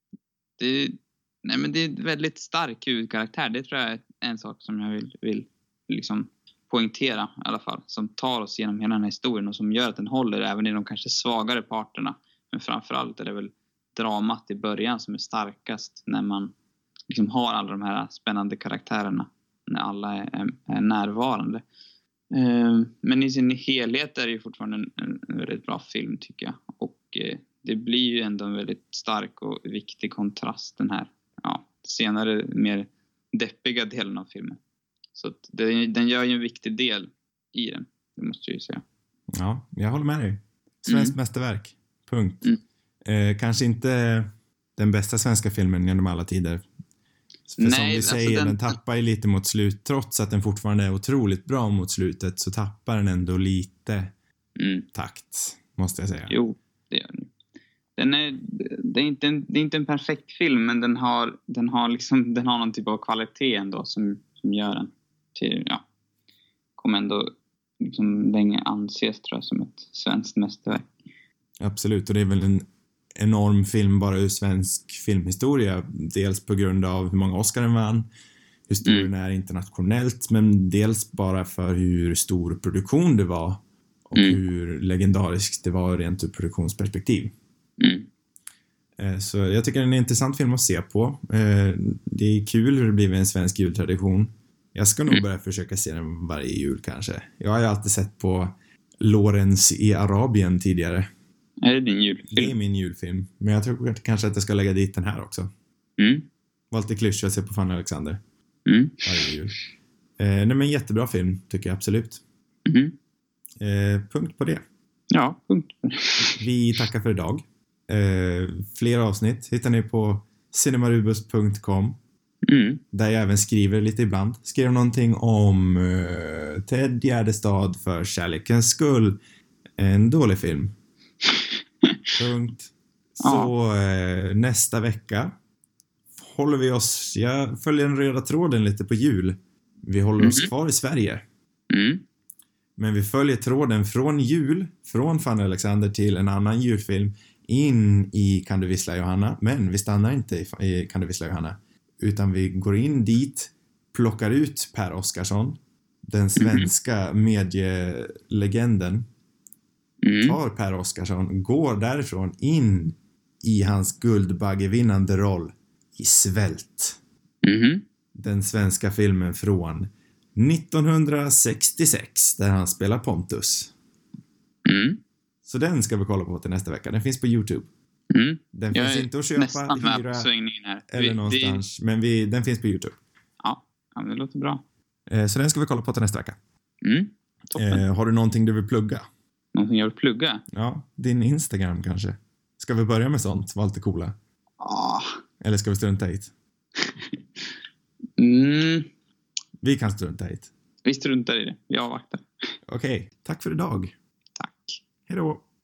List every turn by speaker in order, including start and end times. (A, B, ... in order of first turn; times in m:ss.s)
0:00.6-0:16.5 A
0:17.1-0:21.6 A
0:22.3-0:34.6 A
0:35.1-0:38.8 A
0:39.3-0:42.5 B
0:40.9-0:41.1 A
0:43.0-0:46.6 B
0:47.5-0:54.1 B
0:47.6-0:48.8 A
0:54.6-0:54.8 A
0:54.9-0:56.3 B
0:56.3-0:57.3 A
0:58.0-1:05.8 A
1:06.8-1:10.9 A
1:11.6-1:12.6 B
1:13.2-1:18.1 B
1:18.7-1:27.3 B
1:27.8-1:28.1 A
1:29.0-1:41.1 B
1:41.6-1:42.5 A
1:42.2-1:45.5 B
1:46.0-1:46.2 A
1:46.7-1:48.2 B
1:48.6-1:49.3 A
1:49.0-1:49.6 B
1:50.2-1:52.2 B
1:52.6-1:52.9 A
1:53.6-1:54.6 B
1:55.1-1:56.4 A
1:56.4-2:02.0 B
2:02.4-2:02.8 A
2:02.9-2:09.2 B
2:09.8-2:10.7 B
2:12.2-2:15.3 B
2:13.2-2:13.5 A
2:16.2-2:21.2 B
2:20.2-2:20.5 A
2:21.7-2:22.0 A
2:22.8-2:39.1 B
2:36.4-2:36.7 A
2:40.0-2:40.4 A
2:40.2-2:47.0 B
2:47.4-2:47.8 A
2:48.1-2:53.7 B
2:54.6-2:55.0 A
2:55.4-2:57.7 B
2:58.1-3:01.6 A
2:58.5-3:00.3 B
3:00.9-3:03.0 B
3:03.4-3:04.6 A
3:05.1-3:06.4 B
3:06.8-3:07.8 A
3:07.5-3:09.1 B
3:09.5-3:10.4 A
3:10.5-3:14.1 B
3:14.6-3:15.2 A
3:15.4-3:16.3 B
3:18.2-3:18.9 A
3:19.6-3:20.5 B
3:20.8-3:22.2 A
3:22.7-3:23.9 B
3:24.4-3:24.8 A
3:25.1-3:25.4 B